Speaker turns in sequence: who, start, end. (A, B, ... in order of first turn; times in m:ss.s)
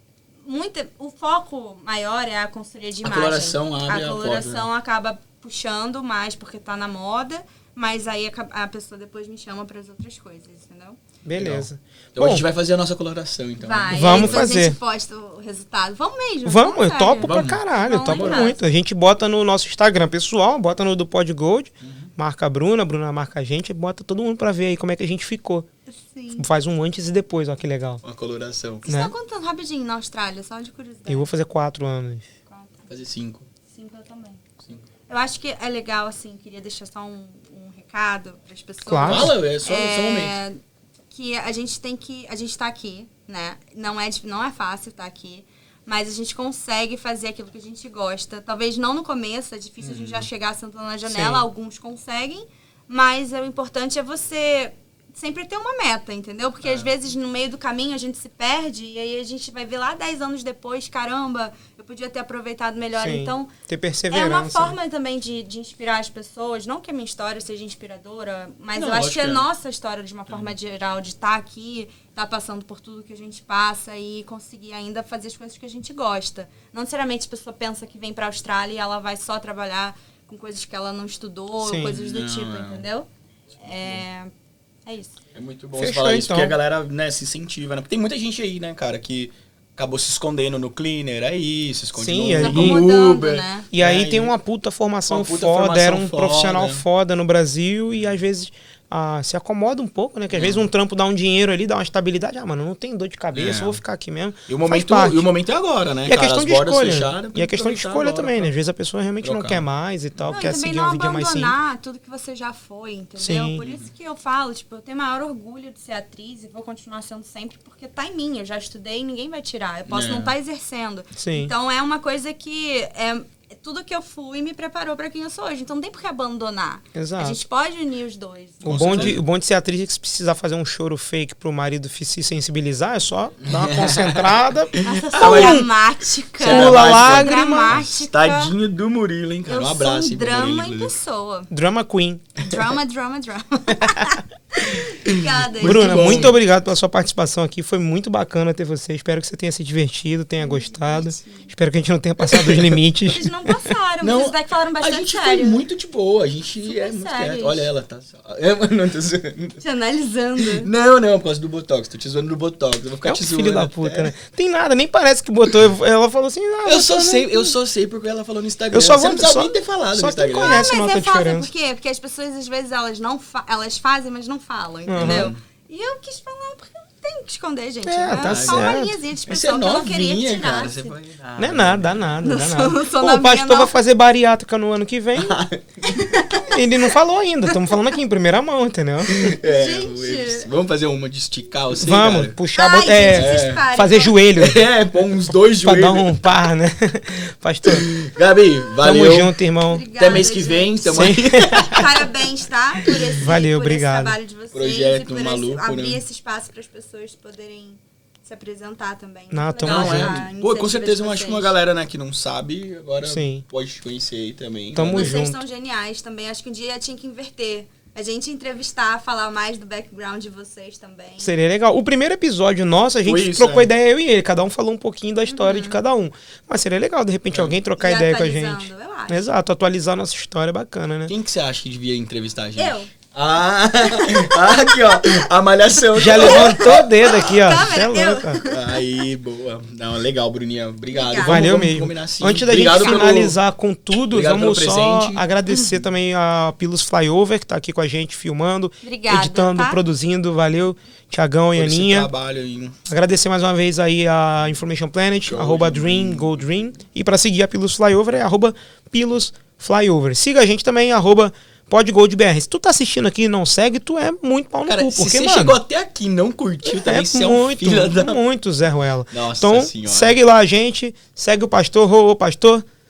0:00.4-0:11.0 A
0:03.0-0:04.7 B
0:11.2-0:12.4 C
0:11.3-0:14.5 B
0:13.6-0:18.6 A
0:13.9-0:14.8 C
0:16.4-0:25.7 C
0:17.2-0:18.5 B
0:21.8-0:22.1 B
0:25.9-0:26.5 A
0:26.4-0:28.0 C
0:28.0-0:28.9 B
0:28.8-0:31.3 A
0:28.8-0:29.1 C
0:31.1-0:32.3 C
0:32.4-0:32.9 A
0:32.9-0:33.5 B
0:33.7-0:34.4 A
0:35.1-0:40.6 A
0:38.8-0:39.3 C
0:39.0-0:40.4 B
0:41.1-1:03.5 A
0:49.8-0:50.3 B
0:51.1-0:51.5 C
0:56.6-0:56.9 B
1:03.0-1:04.8 C
1:04.1-1:23.1 A
1:08.8-1:09.4 B
1:21.6-1:22.0 C
1:21.9-1:22.8 B
1:23.6-1:24.3 A
1:23.7-1:24.0 B
1:24.8-1:25.2 A
1:25.3-1:34.3 B
1:25.8-1:26.5 C
1:31.9-1:32.8 C
1:32.4-1:33.7 A
1:33.7-1:45.3 C
1:35.1-1:36.8 B
1:40.3-1:40.7 B
1:43.3-1:43.8 B
1:44.5-1:48.5 B
1:46.1-1:51.6 C
1:49.2-1:50.4 B
1:50.3-2:09.2 A
1:53.2-1:53.6 C
1:53.6-1:53.9 B
1:59.9-2:00.3 B
2:01.2-2:01.5 C
2:06.9-2:07.4 C
2:08.6-2:15.7 C
2:08.6-2:09.2 B
2:13.4-2:15.7 B
2:14.8-2:18.5 A
2:16.4-2:20.9 B
2:16.4-2:17.8 C
2:19.5-2:21.5 A
2:21.5-2:22.2 C
2:22.4-2:26.3 A
2:25.0-2:26.4 B
2:25.6-2:33.3 C
2:30.4-2:31.5 A
2:32.2-2:32.8 B
2:33.1-2:35.6 A
2:34.0-2:39.6 B
2:36.6-2:37.7 A
2:39.6-2:40.7 A
2:40.4-2:44.1 B
2:43.0-2:47.5 C
2:46.6-2:50.7 B
2:48.7-2:51.5 C
2:50.3-3:00.9 A
2:54.8-2:55.3 C
2:55.0-2:55.4 B
2:57.8-2:59.0 C
2:58.2-3:02.2 B
3:01.4-3:05.4 C
3:02.2-3:03.7 A
3:05.2-3:06.1 B
3:05.8-3:07.0 A
3:06.4-3:09.4 C
3:09.1-3:12.4 B
3:09.4-3:10.5 A
3:11.8-3:14.6 C
3:12.5-3:14.2 A
3:13.1-3:13.6 B
3:14.4-3:16.1 B
3:15.6-3:17.9 C
3:17.6-3:19.4 B
3:18.2-3:18.7 A
3:18.8-3:19.9 C
3:19.6-3:31.6 A
3:19.9-3:22.1 B
3:20.9-3:21.9 C
3:22.9-3:24.2 C
3:24.5-3:26.0 B
3:29.3-3:30.2 C
3:29.6-3:35.2 B
3:33.0-3:33.4 C
3:34.7-3:35.4 C
3:34.9-3:41.3 A
3:41.2-3:51.1 C
3:43.0-3:43.7 B
3:45.3-3:45.8 A
3:47.3-3:47.6 B
3:47.8-3:49.3 A
3:51.1-3:57.7 B
3:52.6-3:52.9 A
3:53.8-3:55.3 A
3:55.9-3:58.4 C
3:56.1-3:59.0 A
3:58.4-4:03.4 B
4:00.9-4:01.5 A
4:01.2-4:12.1 C
4:04.1-4:05.2 B
4:08.8-4:09.8 A
4:11.5-4:12.8 B
4:12.9-4:25.6 C
4:15.3-4:16.4 B
4:24.7-4:28.2 B
4:26.6-4:32.6 C
4:29.1-4:30.2 B